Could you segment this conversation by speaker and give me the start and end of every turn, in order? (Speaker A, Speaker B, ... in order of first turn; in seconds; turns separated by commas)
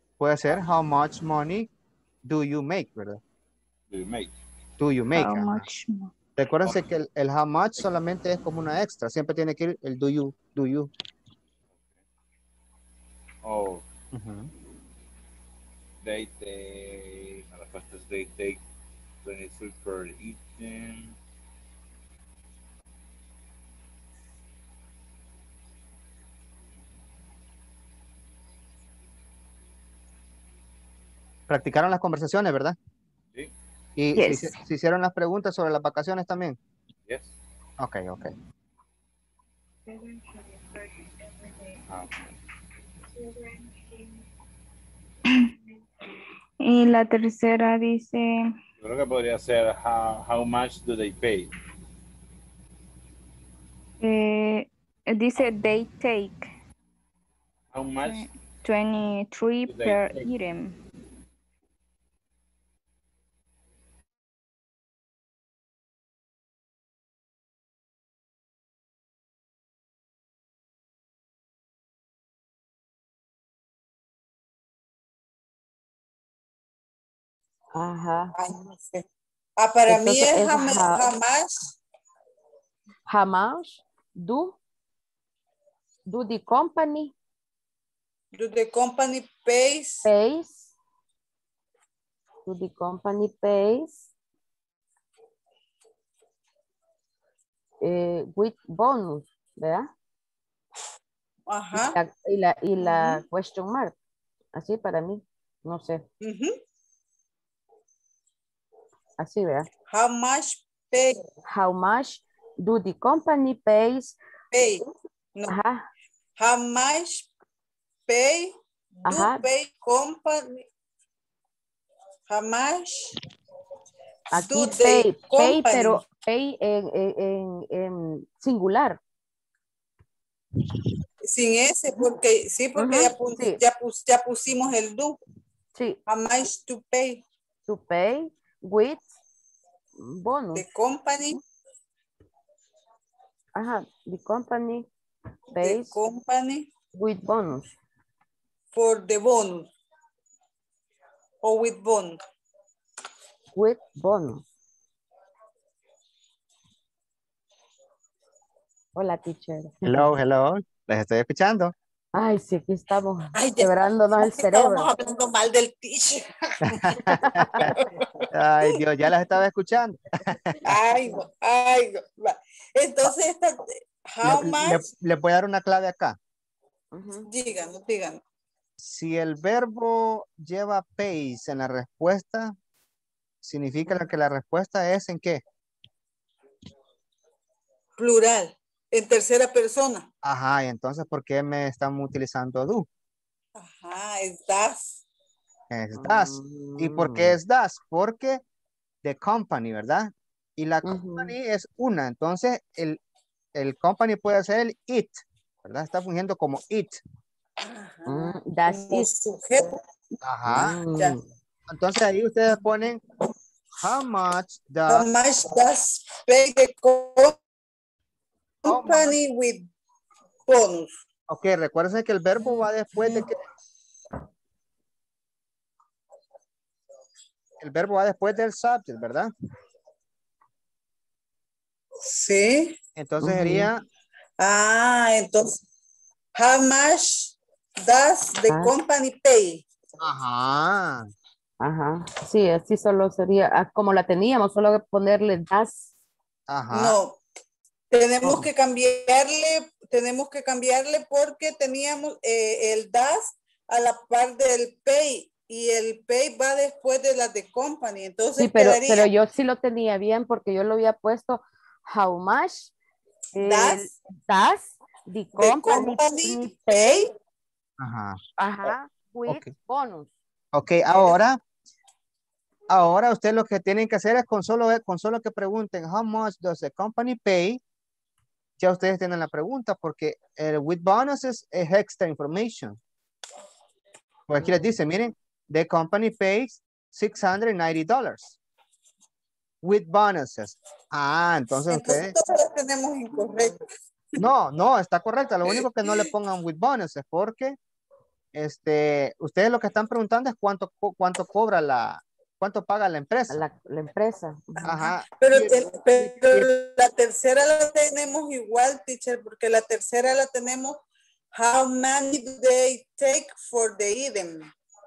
Speaker A: 0.2-1.7, Speaker A: 2.2-3.2, Speaker B: 3.9-4.3, Speaker A: 4.8-5.7, Speaker C: 5.1-6.1, Speaker A: 6.4-10.9, Speaker B: 13.4-13.8, Speaker A: 14.1-14.5, Speaker B: 16.0-18.6, Speaker B: 19.2-21.1, Speaker A: 31.5-32.8, Speaker A: 34.0-36.6, Speaker C: 34.2-34.5, Speaker B: 37.1-37.3, Speaker A: 37.8-38.3, Speaker B: 41.9-42.3, Speaker C: 46.6-48.5, Speaker B: 48.8-51.5, Speaker C: 54.0-56.5, Speaker B: 57.7-58.3, Speaker C: 58.0-60.8, Speaker B: 59.7-60.3, Speaker D: 77.8-78.3, Speaker E: 78.4-79.0, Speaker E: 79.6-81.7, Speaker D: 79.9-81.1, Speaker D: 83.1-84.6, Speaker D: 86.1-87.1, Speaker E: 88.4-90.1, Speaker D: 90.0-90.7, Speaker D: 92.5-94.1, Speaker D: 97.8-99.9, Speaker E: 101.5-102.0, Speaker D: 101.8-104.0, Speaker E: 102.8-103.2, Speaker D: 104.6-106.1, Speaker E: 106.2-106.5, Speaker D: 109.2-109.7, Speaker E: 109.9-111.2, Speaker D: 111.5-114.2, Speaker E: 114.5-114.8, Speaker D: 115.5-115.8, Speaker E: 116.4-117.3, Speaker E: 118.1-120.7, Speaker D: 119.0-119.5, Speaker E: 122.3-123.1, Speaker D: 124.3-129.0, Speaker E: 124.4-126.0, Speaker E: 131.3-135.2, Speaker D: 132.8-133.6, Speaker E: 136.1-137.2, Speaker D: 137.7-139.1, Speaker D: 140.0-140.6, Speaker E: 140.6-141.4, Speaker D: 143.6-144.9, Speaker D: 145.5-145.9, Speaker E: 145.6-146.7, Speaker D: 146.9-147.7, Speaker E: 148.7-149.7, Speaker E: 151.4-152.2, Speaker D: 153.6-154.4, Speaker D: 159.0-160.1, Speaker A: 159.9-161.7, Speaker D: 162.2-164.9, Speaker E: 163.3-166.4, Speaker A: 166.7-167.7, Speaker D: 166.9-167.7, Speaker A: 168.3-170.5, Speaker E: 170.6-174.8, Speaker A: 174.2-176.2, Speaker D: 176.9-177.3, Speaker E: 177.3-178.2, Speaker A: 178.8-182.6, Speaker A: 183.4-185.4, Speaker E: 188.0-190.1, Speaker A: 190.2-192.9, Speaker E: 193.6-194.8, Speaker A: 195.7-198.4, Speaker D: 196.0-197.4, Speaker A: 199.0-203.0, Speaker D: 200.8-201.3, Speaker A: 203.6-207.0, Speaker E: 207.6-209.7, Speaker D: 208.1-209.1, Speaker A: 210.2-210.8, Speaker D: 210.5-211.2, Speaker A: 211.7-213.0, Speaker A: 213.8-215.1, Speaker E: 214.9-217.4, Speaker E: 218.6-219.7, Speaker A: 218.7-219.1, Speaker E: 220.5-220.9, Speaker A: 221.3-223.4, Speaker A: 227.6-229.3, Speaker E: 232.0-232.8, Speaker A: 233.0-233.8, Speaker D: 233.2-233.7, Speaker E: 234.4-235.5, Speaker E: 236.4-237.3, Speaker E: 237.8-239.6, Speaker D: 238.5-238.8, Speaker A: 240.0-241.1, Speaker D: 241.6-245.9, Speaker A: 246.5-247.0, Speaker E: 246.7-247.2, Speaker E: 247.9-259.1, Speaker D: 258.4-262.7, Speaker D: 263.3-266.9, Speaker E: 263.4-263.9, Speaker E: 265.4-267.1, Speaker A: 267.8-268.2, Speaker D: 268.4-270.1, Speaker A: 269.3-269.5, Speaker A: 270.5-271.4, Speaker A: 272.7-277.6, Speaker A: 278.6-282.8, Speaker A: 284.3-288.4, Speaker A: 289.6-292.1, Speaker E: 291.7-293.6, Speaker A: 294.2-297.6, Speaker A: 298.3-303.4, Speaker D: 303.3-304.9, Speaker A: 304.6-306.4, Speaker E: 304.7-310.8, Speaker E: 311.4-314.5